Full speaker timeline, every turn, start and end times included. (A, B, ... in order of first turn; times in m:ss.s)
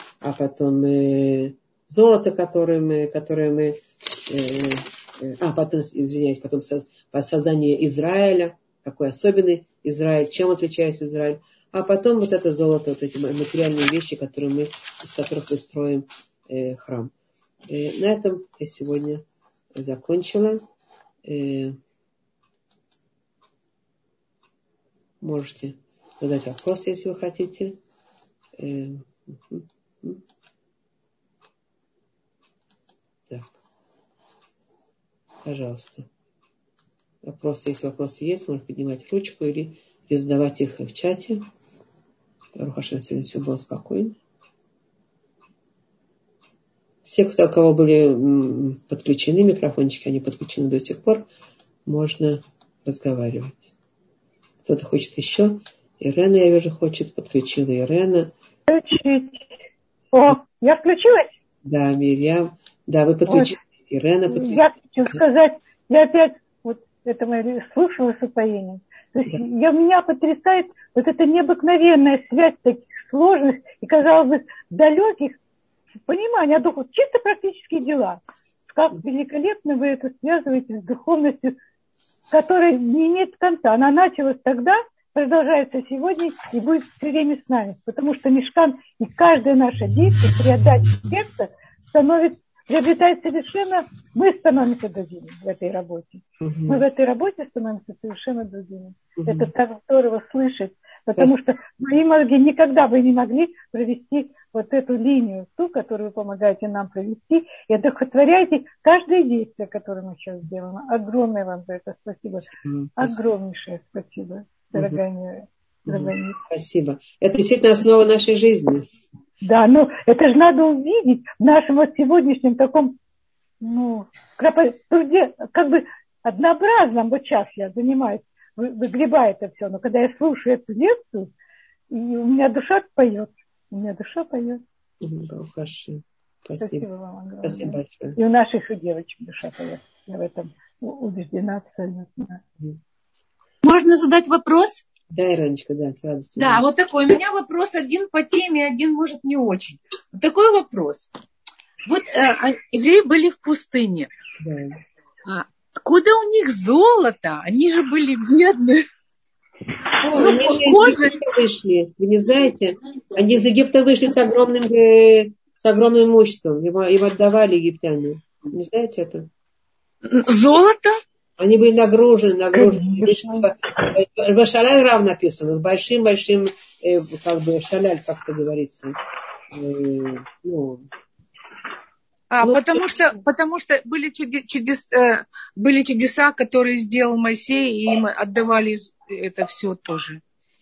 0:00.2-0:17.1 A
0:17.7-0:19.2 A
0:19.8-0:20.6 A
0:21.2-0:21.8 A
0:25.2-0:27.8 A
0:28.6-0:30.2 A
0:35.4-0:36.1 A
0:37.2-0:41.4 A
0:42.6-0:44.2 A
0:47.0-0:51.3 A
0:51.9-0:53.7 A
0:54.6-0:58.3 A
0:58.7-0:59.5 B
1:00.1-1:01.3 B
1:01.6-1:04.6 A
1:03.3-1:03.5 B
1:04.3-1:15.4 B
1:16.0-1:21.6 B
1:22.3-1:56.4 B
1:36.4-1:36.8 A
1:39.2-1:39.5 A
1:52.6-1:53.2 A
1:54.7-1:55.0 A
1:55.9-1:58.8 A
1:59.4-2:03.0 B
2:03.6-2:11.3 B
2:11.9-2:14.6 B
2:15.0-2:16.9 A
2:16.6-2:22.4 B
2:17.4-2:18.2 A
2:23.6-2:24.8 C
2:25.1-2:26.7 A
2:26.4-2:31.1 C
2:31.8-2:34.1 C
2:34.4-2:34.8 A
2:35.2-2:38.9 C
2:40.0-2:49.3 A
2:40.1-2:41.2 C
2:50.0-2:51.0 C
2:51.4-2:59.0 A
2:52.9-2:53.4 B
2:59.5-3:00.9 A
3:02.3-3:10.2 C
3:02.4-3:02.8 A